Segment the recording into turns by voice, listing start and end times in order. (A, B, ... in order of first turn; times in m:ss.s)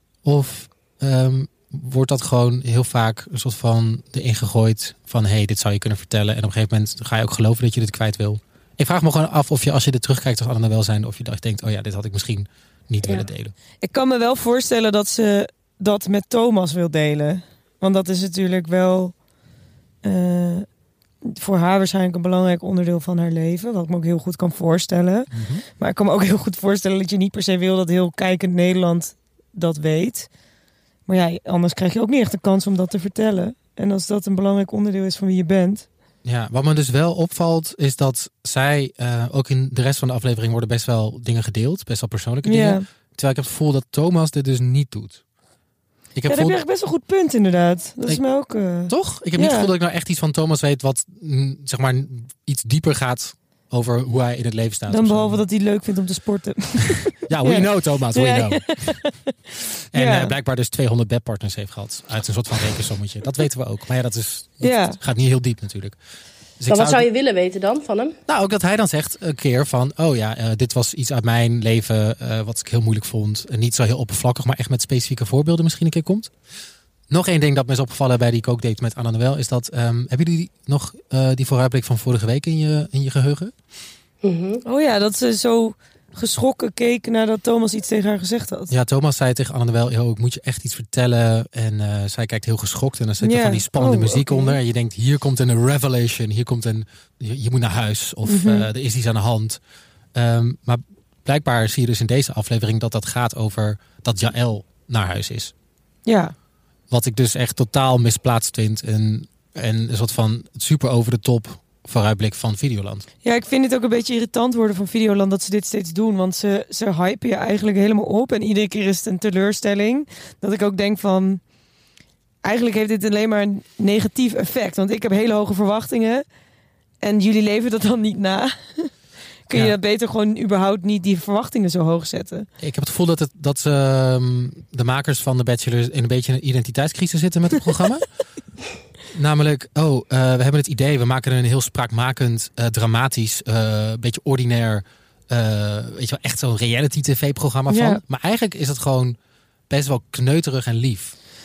0:00.2-0:13.5 A
0:13.8-0:19.1 B
0:20.0-0:20.6 B
0:21.2-0:30.3 B
0:25.3-0:25.6 A
0:31.1-0:35.8 B
0:36.2-0:45.2 A
0:42.4-0:42.8 B
0:46.1-0:46.6 A
0:46.3-0:49.7 B
0:48.9-0:55.4 A
0:54.9-1:00.3 B
0:57.3-0:58.9 A
0:59.9-1:06.0 A
1:04.6-1:05.0 B
1:06.6-1:07.1 A
1:06.7-1:08.2 C
1:08.3-1:16.3 A
1:17.1-1:23.5 A
1:24.2-1:24.6 C
1:24.6-1:28.7 B
1:28.7-1:39.6 A
1:33.2-1:34.6 B
1:38.2-1:38.7 B
1:40.1-1:45.5 A
1:46.0-1:46.3 B
1:46.9-1:53.0 A
1:53.2-2:01.4 B
2:02.4-2:06.2 B
2:07.0-2:08.9 B
2:09.5-2:12.5 B
2:12.6-2:18.0 A
2:19.1-2:29.2 A
2:27.7-2:28.0 B
2:29.7-2:31.1 A